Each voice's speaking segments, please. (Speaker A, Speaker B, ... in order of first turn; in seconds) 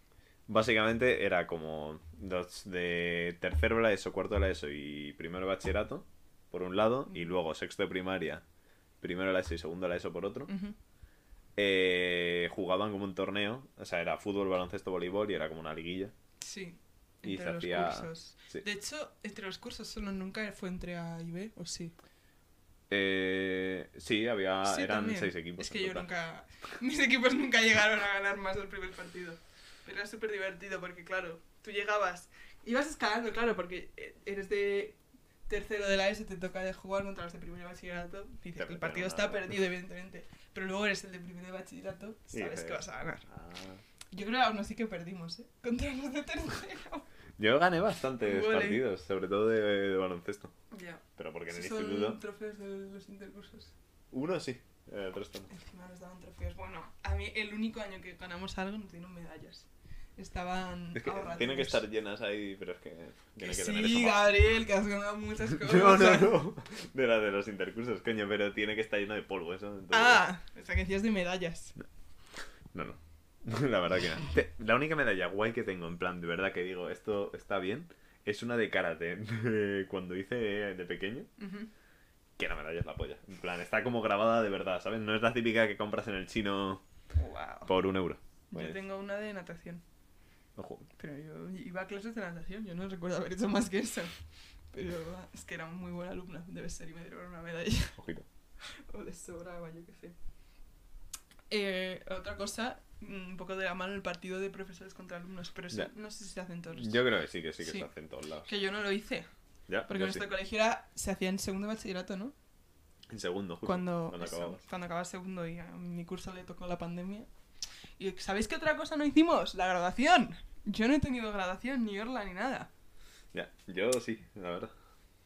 Speaker A: 0.5-8.4, 9.0-10.5, 11.6-16.1, 17.2-18.6, 22.9-26.1, 38.6-39.5, 42.3-43.8, 47.4-50.5, 51.2-52.2, 54.1-55.5, 61.0-64.4, 65.5-70.2, 72.7-81.3, 82.4-86.8, 87.7-88.8, 90.6-90.9, 98.0-98.3, 106.7-108.5, 109.7-110.2, 113.1-114.6, 123.3-124.7
Speaker B: 10.5-10.8, 16.4-21.9, 24.6-43.3, 44.1-47.0, 48.2-48.8, 50.7-53.7, 55.5-61.8, 63.4-66.4, 69.9-71.8, 81.4-81.7, 87.2-87.7, 88.5-89.8, 91.0-94.1, 94.7-98.0, 98.7-100.2, 101.5-107.0, 107.6-107.9, 108.5-109.3, 109.9-112.3, 113.6-117.3, 118.0-122.7